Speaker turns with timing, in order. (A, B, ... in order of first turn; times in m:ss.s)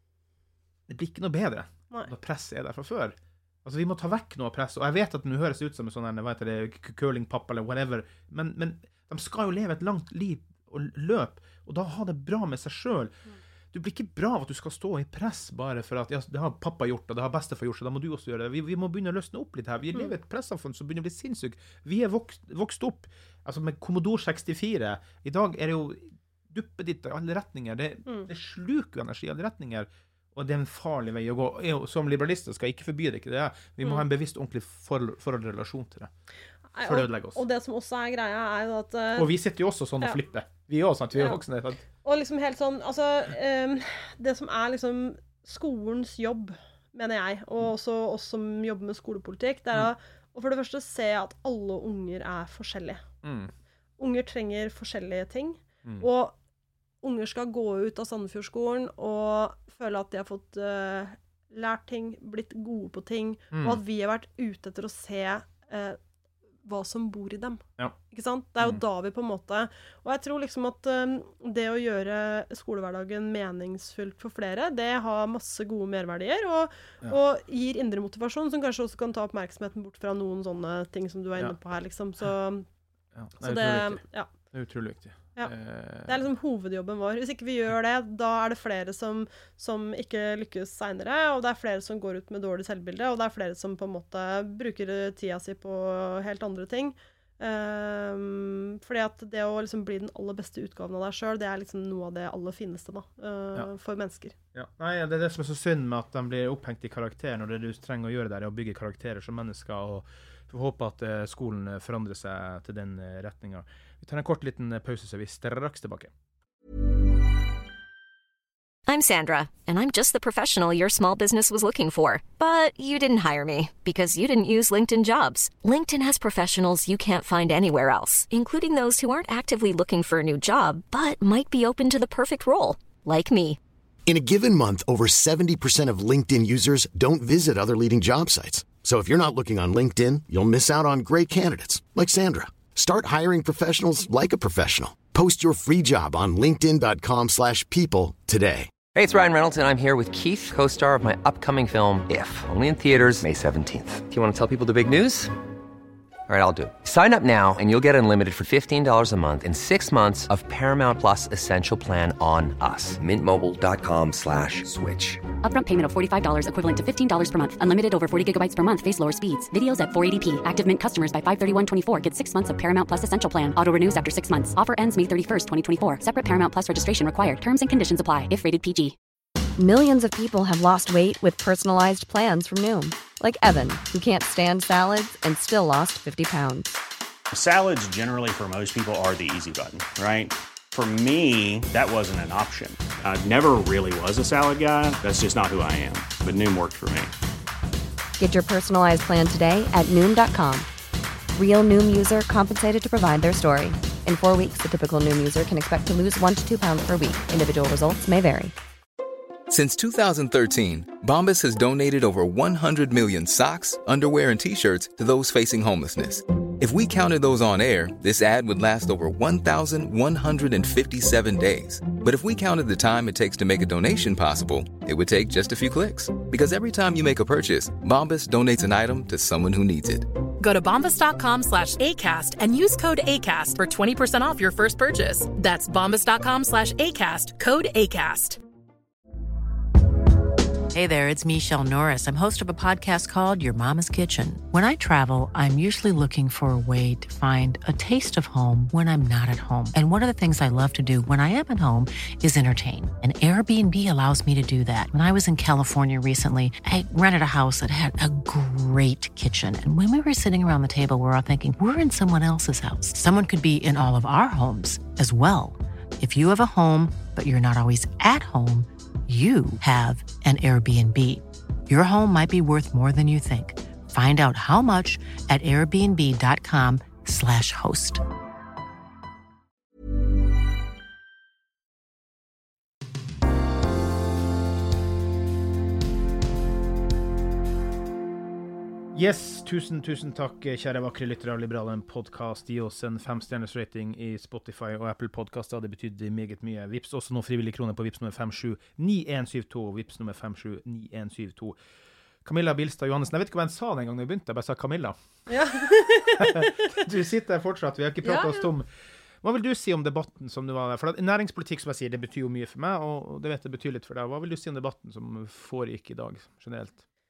0:00.9-0:13.2 A
0:13.7-0:36.1 A
0:36.8-0:39.3 B
0:36.8-0:37.4 A
0:39.2-0:41.8 A
0:41.2-0:41.4 B
0:42.0-0:53.0 B
0:53.2-0:53.5 A
0:54.0-0:56.4 B
0:57.0-1:06.0 B
1:03.5-1:03.8 A
1:06.6-1:22.7 B
1:23.2-1:26.2 A
1:23.4-1:24.3 B
1:26.0-1:44.4 B
1:44.5-1:56.1 A
1:58.9-2:13.6 C
2:14.1-2:28.7 D
2:28.9-2:35.3 E
2:36.3-2:45.2 E
2:45.4-2:59.0 F
2:59.6-3:06.7 G
3:07.4-3:17.1 H
3:18.2-3:20.7 G
3:21.4-3:28.6 G
3:29.5-3:50.1 I
3:50.4-3:58.4 J
4:00.7-4:38.0 K
4:48.9-5:01.6 A
5:02.2-5:05.0 A
5:05.3-5:06.7 B
5:06.2-5:08.7 A
5:08.0-5:08.5 B
5:09.2-5:16.8 A